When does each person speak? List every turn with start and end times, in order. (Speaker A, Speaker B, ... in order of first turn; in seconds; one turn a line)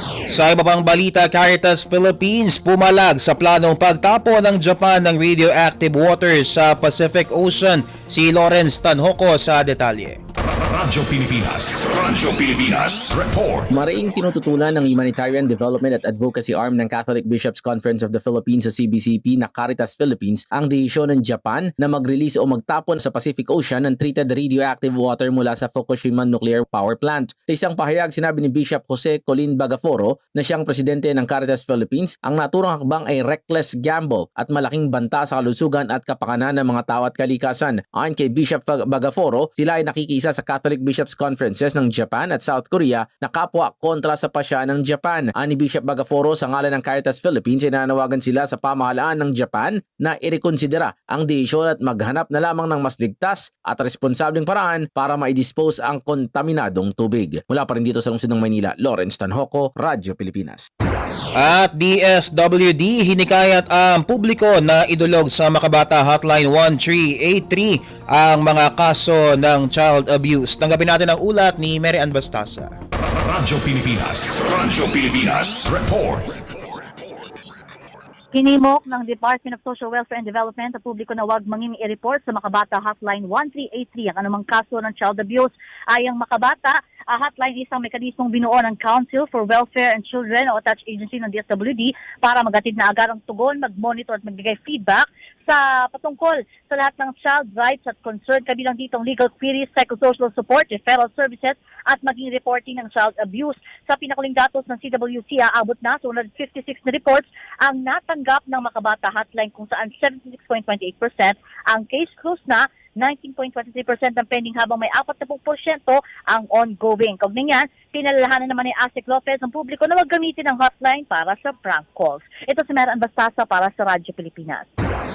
Speaker A: 0.3-10.2
Speaker B: 10.7-13.7
Speaker C: 13.7-60.7
Speaker A: 61.4-72.7
Speaker B: 73.3-76.4
Speaker D: 78.3-124.7